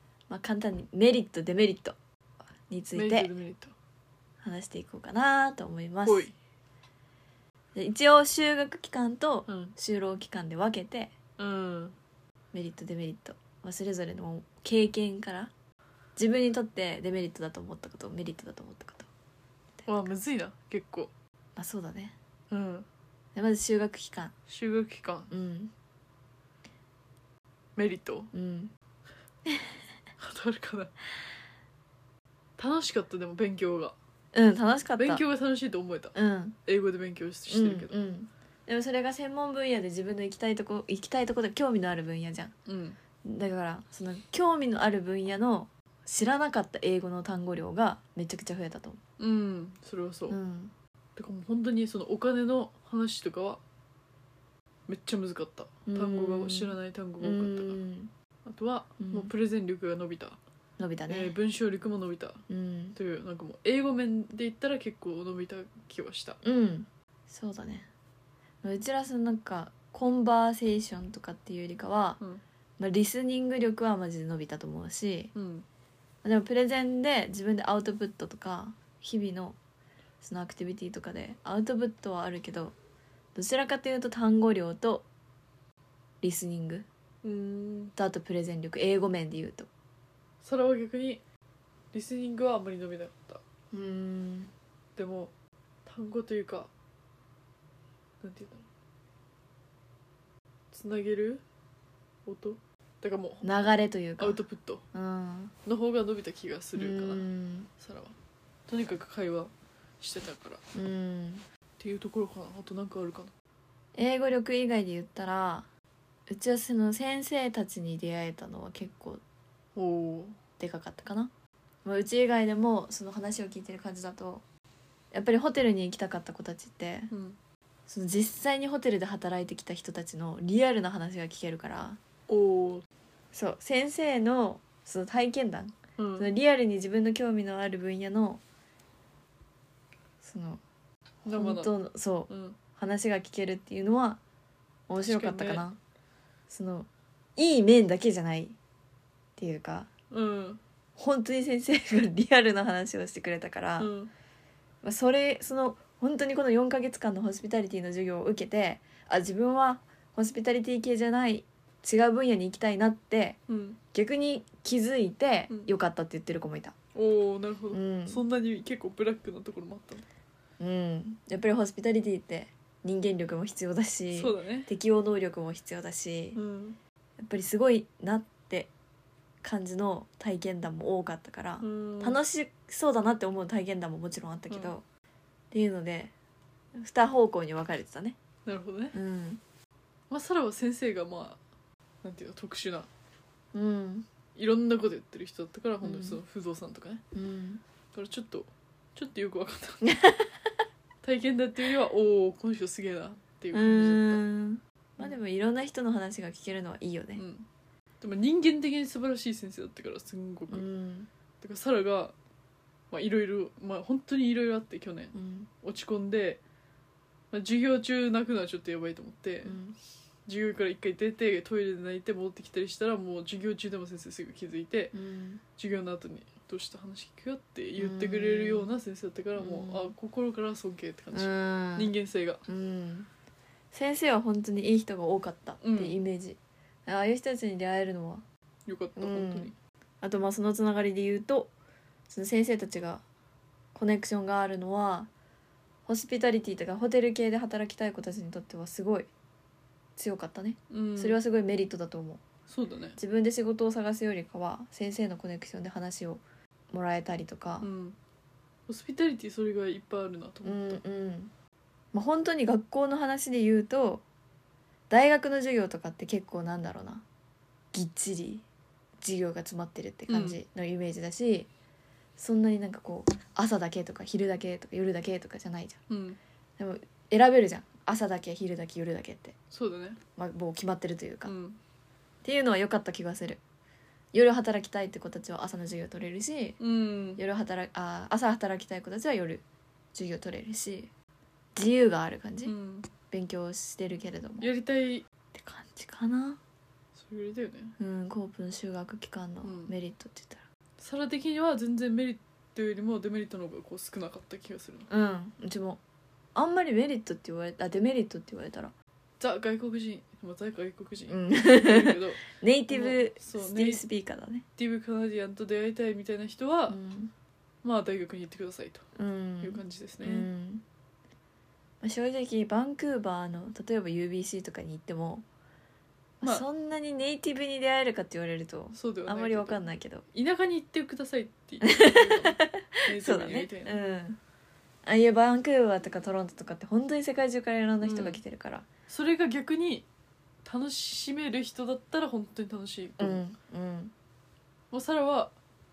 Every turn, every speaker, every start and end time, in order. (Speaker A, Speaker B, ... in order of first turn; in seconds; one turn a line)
Speaker A: 0.3-1.9
Speaker A: 2.7-3.3
Speaker B: 2.9-3.7
Speaker A: 4.4-6.3
Speaker B: 6.0-6.3
Speaker A: 7.7-11.1
Speaker B: 9.5-9.7
Speaker B: 11.4-11.9
Speaker A: 12.5-15.5
Speaker A: 16.1-19.1
Speaker B: 19.9-21.1
Speaker A: 21.6-22.1
Speaker B: 22.5-22.9
Speaker A: 23.3-24.3
Speaker B: 24.5-25.3
Speaker A: 25.3-25.7
Speaker B: 27.8-28.3
Speaker A: 28.3-28.7
Speaker B: 30.2-30.9
Speaker B: 32.6-34.0
Speaker A: 34.3-35.2
Speaker B: 35.0-37.9
Speaker A: 36.1-36.6
Speaker A: 37.5-42.5
Speaker B: 42.6-43.0
Speaker A: 43.2-49.0
Speaker B: 49.2-50.4
Speaker A: 50.3-50.7
Speaker B: 51.1-53.6
Speaker B: 54.9-57.8
Speaker A: 55.9-58.1
Speaker B: 58.4-60.4
Speaker A: 59.0-59.3
Speaker A: 60.8-61.3
Speaker B: 61.1-62.4
Speaker A: 62.5-63.0
Speaker B: 62.9-66.4
Speaker A: 66.4-67.9
Speaker A: 68.6-72.2
Speaker A: 72.8-75.3
Speaker B: 75.3-75.7
Speaker A: 76.2-79.6
Speaker A: 80.2-82.7
Speaker A: 83.3-85.0
Speaker A: 86.2-86.8
Speaker B: 87.2-87.9
Speaker A: 88.0-89.7
Speaker B: 90.4-91.2
Speaker B: 91.9-93.4
Speaker A: 93.7-94.5
Speaker B: 95.0-95.3
Speaker B: 95.8-96.7
Speaker B: 98.2-98.6
Speaker B: 100.7-101.4
Speaker B: 102.2-104.8
Speaker A: 103.4-104.4
Speaker A: 104.9-105.5
Speaker B: 105.6-107.3
Speaker A: 106.8-107.7
Speaker B: 107.8-108.1
Speaker B: 108.7-110.6
Speaker A: 110.7-111.4
Speaker B: 111.8-113.3
Speaker A: 113.9-115.7
Speaker A: 116.3-119.2
Speaker B: 119.7-120.4
Speaker A: 120.6-121.3
Speaker A: 121.8-124.4
Speaker A: 125.1-127.1
Speaker B: 127.1-127.4
Speaker A: 127.9-132.0
Speaker B: 132.3-132.8
Speaker A: 133.3-138.4
Speaker B: 136.0-136.3
Speaker A: 140.2-140.6
Speaker B: 141.2-141.7
Speaker A: 141.2-144.2
Speaker B: 142.3-142.6
Speaker A: 144.9-145.8
Speaker B: 145.1-145.6
Speaker A: 146.5-148.6
Speaker A: 149.4-149.9
Speaker B: 150.1-150.6
Speaker A: 151.0-153.9
Speaker B: 153.8-154.1
Speaker A: 154.8-163.4
Speaker B: 163.5-163.8
Speaker A: 163.9-166.7
Speaker B: 166.9-170.0
Speaker A: 167.7-168.2
Speaker A: 170.6-176.4
Speaker B: 174.1-174.7
Speaker B: 176.3-176.8
Speaker A: 177.2-178.7
Speaker A: 179.4-184.8
Speaker B: 181.6-182.2
Speaker B: 184.5-184.7
Speaker A: 185.5-186.1
Speaker A: 186.7-188.2
Speaker B: 188.4-188.9
Speaker A: 188.9-189.4
Speaker B: 190.1-191.4
Speaker B: 192.0-192.9
Speaker A: 193.5-194.1
Speaker B: 194.3-197.0
Speaker A: 195.8-196.2
Speaker A: 197.1-197.6
Speaker B: 197.9-199.8
Speaker A: 199.8-200.3
Speaker B: 201.0-204.2
Speaker A: 203.5-207.2
Speaker B: 207.2-207.5
Speaker B: 208.0-210.7
Speaker A: 210.5-211.1
Speaker B: 211.4-212.1
Speaker B: 212.9-216.4
Speaker A: 215.1-215.5
Speaker B: 217.3-219.6
Speaker A: 219.4-219.8
Speaker B: 220.2-224.9
Speaker A: 224.9-225.4
Speaker B: 225.6-232.4
Speaker A: 227.8-228.7
Speaker A: 229.3-229.9
Speaker A: 231.1-231.9
Speaker A: 232.5-233.1
Speaker A: 233.7-238.2
Speaker B: 235.6-236.0
Speaker B: 238.7-239.5
Speaker A: 238.9-241.5
Speaker A: 242.1-243.0
Speaker A: 243.7-245.1
Speaker A: 245.8-249.1
Speaker A: 250.0-252.2
Speaker B: 250.7-251.2
Speaker B: 252.5-253.0
Speaker A: 253.0-257.7
Speaker B: 257.6-258.0
Speaker B: 258.7-260.8
Speaker A: 260.4-261.3
Speaker A: 261.9-264.0
Speaker A: 264.9-267.0
Speaker A: 267.7-268.4
Speaker A: 269.0-271.5
Speaker B: 270.1-270.4
Speaker A: 272.2-275.8
Speaker B: 275.9-276.2
Speaker A: 276.6-279.4
Speaker B: 279.5-280.0
Speaker A: 280.1-281.3
Speaker B: 281.2-281.6
Speaker A: 282.2-283.4
Speaker A: 284.1-286.6
Speaker B: 286.6-287.2
Speaker A: 287.2-289.4
Speaker A: 289.9-290.9
Speaker A: 291.6-292.5
Speaker B: 292.4-292.9
Speaker A: 293.1-294.5
Speaker B: 294.4-295.0
Speaker A: 295.3-296.4
Speaker B: 296.9-297.8
Speaker A: 297.8-300.4
Speaker B: 299.4-299.7
Speaker B: 300.8-304.9
Speaker A: 304.9-305.8
Speaker A: 306.3-308.7
Speaker B: 309.2-313.8
Speaker A: 311.1-314.4
Speaker B: 314.6-316.8
Speaker A: 316.7-317.1
Speaker B: 317.6-318.9
Speaker A: 318.9-320.6
Speaker B: 319.4-320.3
Speaker A: 321.8-325.2
Speaker B: 326.2-326.4
Speaker A: 326.2-330.0
Speaker B: 328.7-333.8
Speaker A: 331.6-334.2
Speaker A: 334.8-338.7
Speaker B: 337.8-338.2
Speaker B: 338.9-339.9
Speaker B: 340.4-343.2
Speaker A: 343.0-343.9
Speaker B: 344.7-345.3